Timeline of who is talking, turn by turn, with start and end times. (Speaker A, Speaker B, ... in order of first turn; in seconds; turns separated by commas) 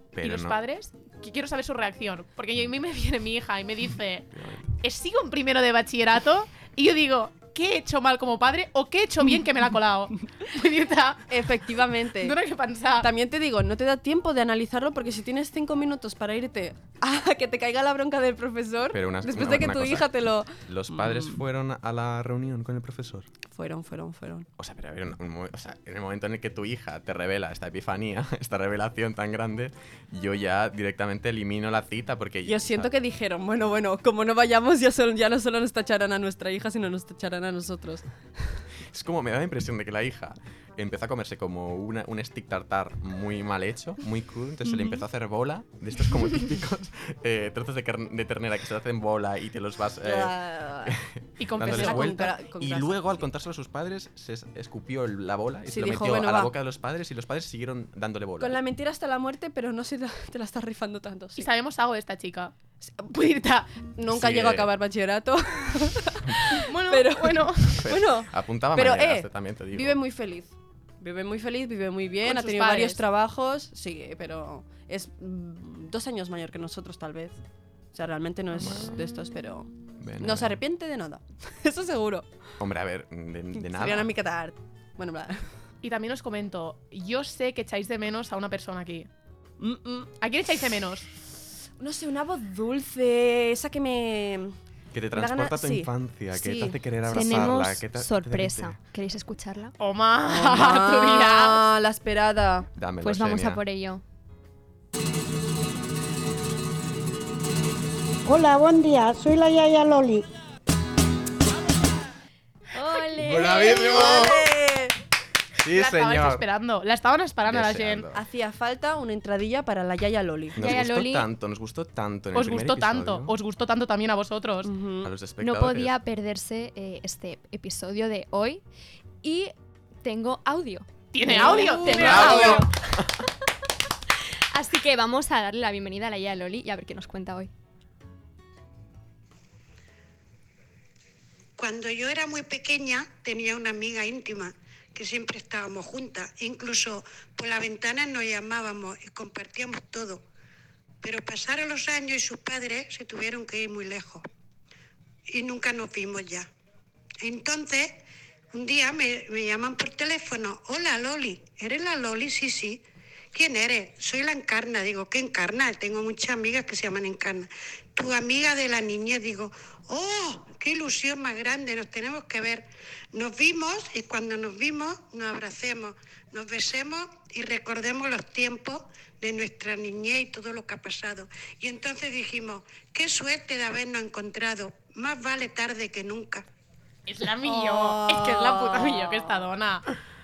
Speaker A: 0.1-0.6, Speaker B: 0.2-4.3, Speaker A: 4.3-4.7, Speaker B: 4.8-11.3, Speaker C: 11.3-12.4, Speaker B: 12.2-13.1, Speaker C: 13.0-21.4, Speaker A: 18.9-23.3, Speaker C: 23.5-24.5, Speaker A: 24.6-32.9, Speaker C: 32.5-38.6, Speaker A: 38.9-58.6, Speaker C: 44.7-45.0, Speaker C: 50.0-51.0, Speaker B: 51.4-52.3, Speaker C: 51.6-53.2, Speaker C: 55.7-56.5, Speaker C: 58.4-61.5, Speaker B: 61.4-63.8, Speaker C: 64.0-77.4, Speaker A: 64.1-64.7, Speaker B: 66.5-68.0, Speaker A: 67.8-70.0, Speaker B: 72.2-73.0, Speaker C: 77.9-82.3, Speaker A: 78.5-79.0, Speaker A: 80.0-80.6, Speaker A: 82.6-84.1, Speaker C: 83.6-85.5, Speaker B: 85.8-89.1, Speaker C: 89.6-90.1, Speaker B: 90.2-91.1, Speaker C: 91.8-94.6, Speaker A: 94.9-98.8, Speaker C: 95.1-96.8, Speaker D: 97.1-99.7, Speaker B: 99.8-101.6, Speaker C: 100.3-102.7, Speaker A: 102.8-103.6, Speaker D: 103.0-104.0, Speaker E: 108.2-110.2, Speaker D: 112.8-114.2, Speaker A: 113.2-114.5, Speaker C: 113.2-115.0, Speaker A: 115.6-116.5, Speaker B: 115.7-118.1, Speaker A: 117.5-118.2, Speaker C: 118.1-120.7, Speaker A: 120.6-123.3, Speaker D: 120.6-121.3, Speaker B: 122.3-124.7, Speaker C: 124.6-125.1, Speaker A: 125.0-126.0, Speaker D: 125.4-128.6, Speaker D: 129.2-129.5, Speaker D: 130.0-132.7, Speaker B: 131.1-132.7, Speaker C: 131.2-132.7, Speaker A: 131.9-132.7, Speaker D: 134.5-137.5, Speaker F: 141.6-150.2, Speaker F: 151.0-154.2, Speaker F: 155.3-156.5, Speaker F: 157.2-162.8, Speaker F: 163.3-186.4, Speaker B: 187.1-189.9, Speaker C: 187.4-189.4